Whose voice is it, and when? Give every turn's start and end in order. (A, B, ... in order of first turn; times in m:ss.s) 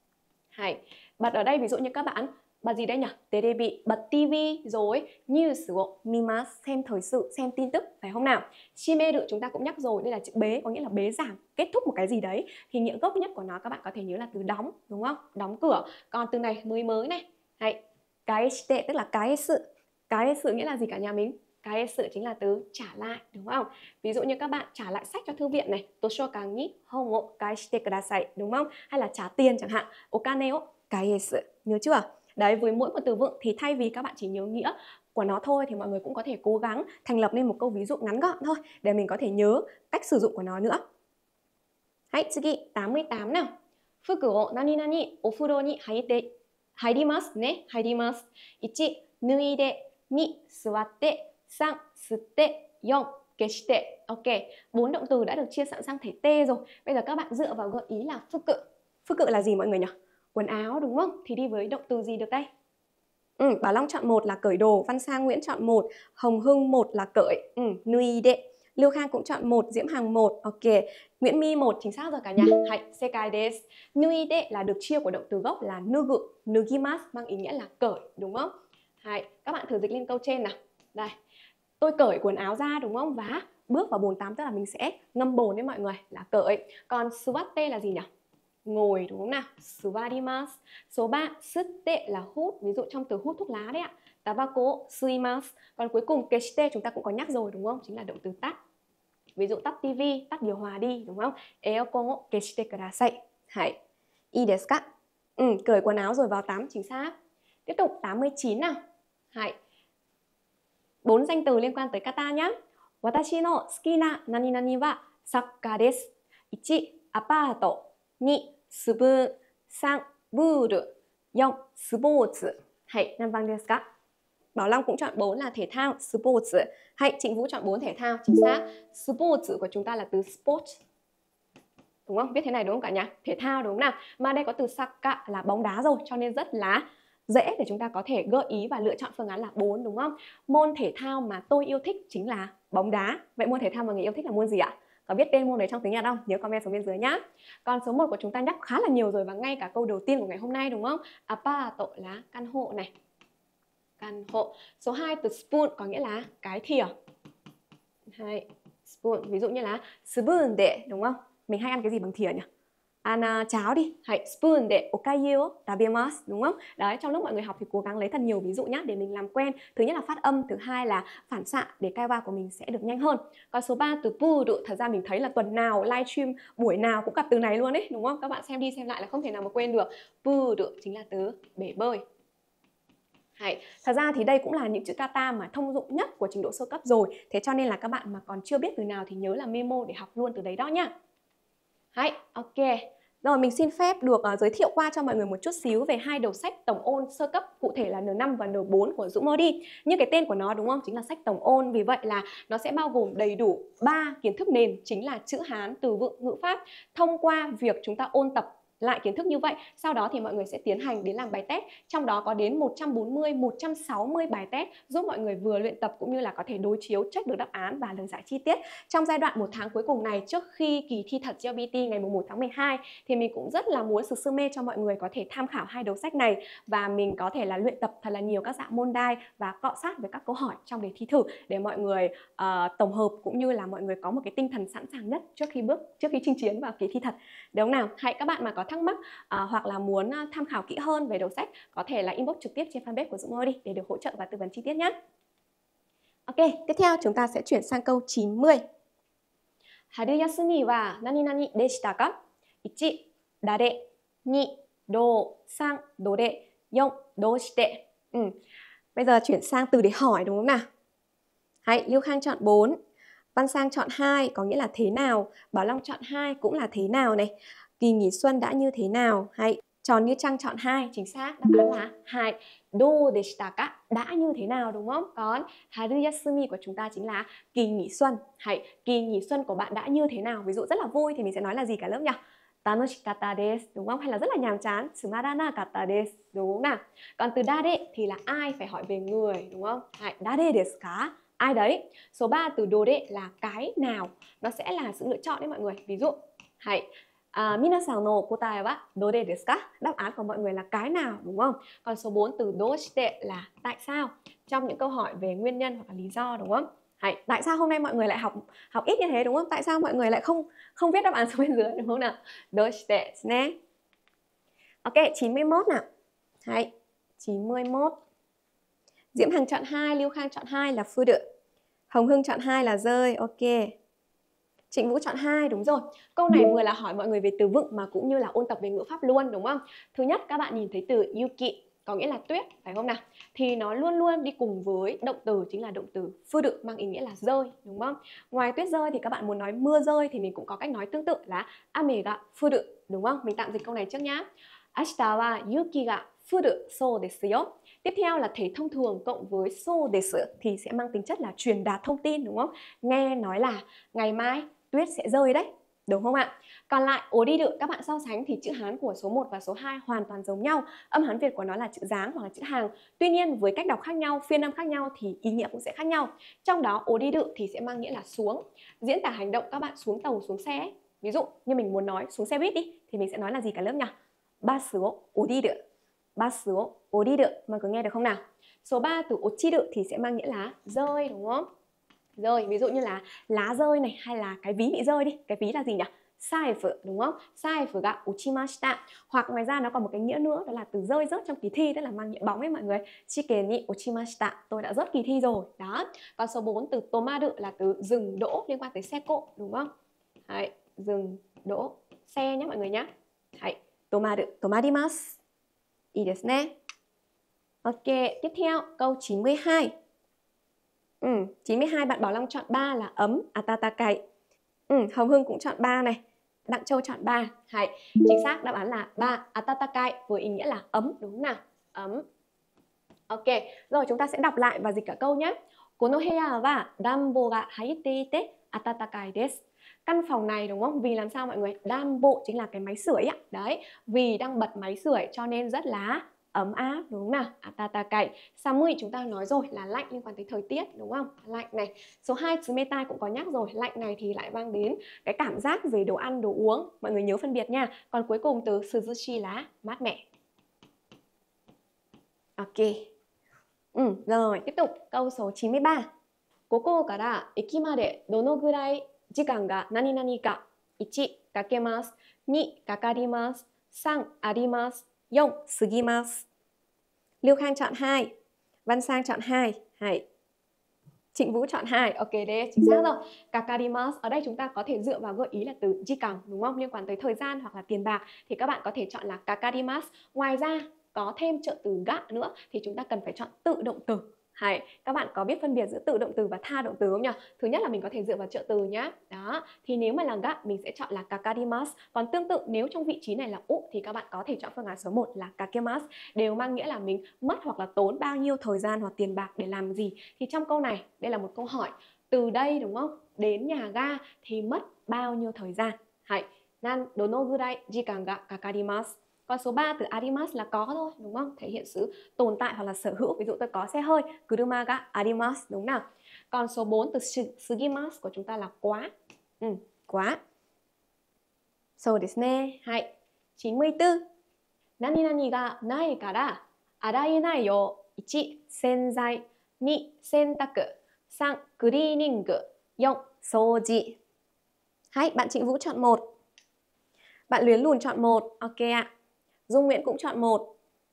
0:00.6-0:40.8 A
0:42.1-0:43.5 A
0:44.0-1:02.5 A
1:03.4-1:18.5 A
1:19.0-1:21.1 A
1:21.8-1:28.1 A
1:28.6-1:38.6 A
1:39.4-1:43.8 A
1:44.3-1:44.8 A
1:45.4-1:47.1 A
1:47.7-1:48.8 A
1:51.0-2:03.8 A
2:04.6-2:10.8 A
2:12.1-2:32.9 A
2:34.0-2:36.9 A
2:38.1-2:42.4 A
2:43.0-3:02.0 A
3:03.4-3:10.9 A
3:11.9-4:04.9 A
4:06.3-4:08.6 A
4:09.9-4:12.1 A
4:12.6-4:18.3 A
4:19.0-4:20.7 A
4:21.6-4:22.8 A
4:23.4-5:13.6 A
5:14.8-5:15.8 A
5:16.4-5:18.0 A
5:19.1-5:21.2 A
5:21.9-5:23.7 A
5:24.7-6:15.6 A
6:16.2-6:21.5 A
6:22.2-6:39.7 A
6:40.3-6:45.2 A
6:45.9-6:46.5 A
6:47.6-6:49.7 A
6:51.0-6:54.0 A
6:54.7-7:02.0 A
7:03.1-7:30.1 A
7:32.4-7:32.9 A
7:33.7-7:35.9 A
7:36.5-7:46.3 A
7:47.2-7:48.1 A
7:48.7-7:50.0 A
7:51.2-8:40.2 A
8:41.8-8:44.0 A
8:44.8-8:54.0 A
8:54.9-8:56.0 A
8:57.3-8:58.9 A
8:59.5-9:00.5 A